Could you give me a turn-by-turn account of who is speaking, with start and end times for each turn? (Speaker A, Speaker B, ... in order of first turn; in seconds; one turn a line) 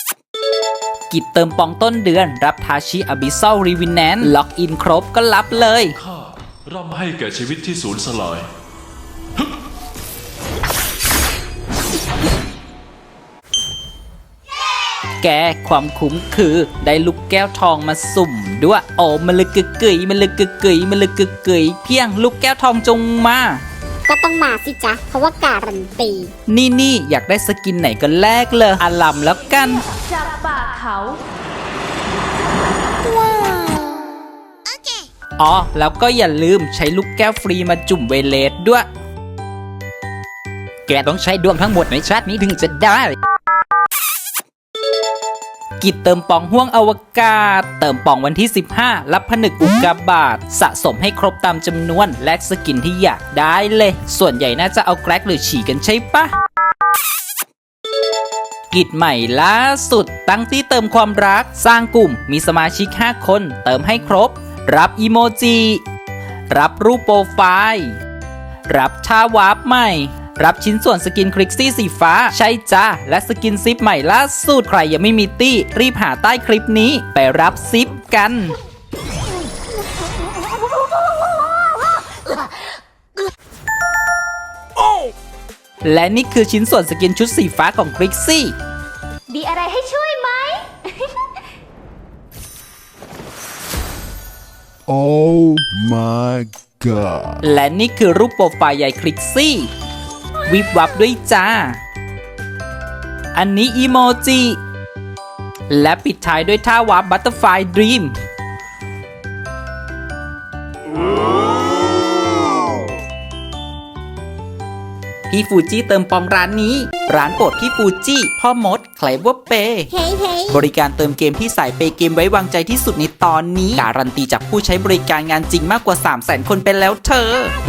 Speaker A: 1.1-6.0
Speaker B: 6.0-8.4
Speaker A: 15.2-23.6
Speaker C: 24.1-26.3
Speaker A: 26.5-29.8
Speaker D: 30.0-31.2
Speaker C: 33.0-34.1
Speaker A: 35.4-38.9
Speaker A: 40.9-43.1
Speaker A: 45.8-56.3
Speaker A: 58.7-65.8
Speaker A: 66.5-68.0
Speaker A: 68.7-78.5
Speaker A: 85.8-88.5
Speaker D: 89.3-91.1
Speaker E: 94.9-97.4
Speaker A: 97.4-99.7
Speaker A: 100.5-101.8
Speaker A: 103.3-104.6
Speaker A: 105.7-108.1
Speaker A: 115.3-119.9
Speaker C: 119.9-120.6
Speaker A: 120.5-127.5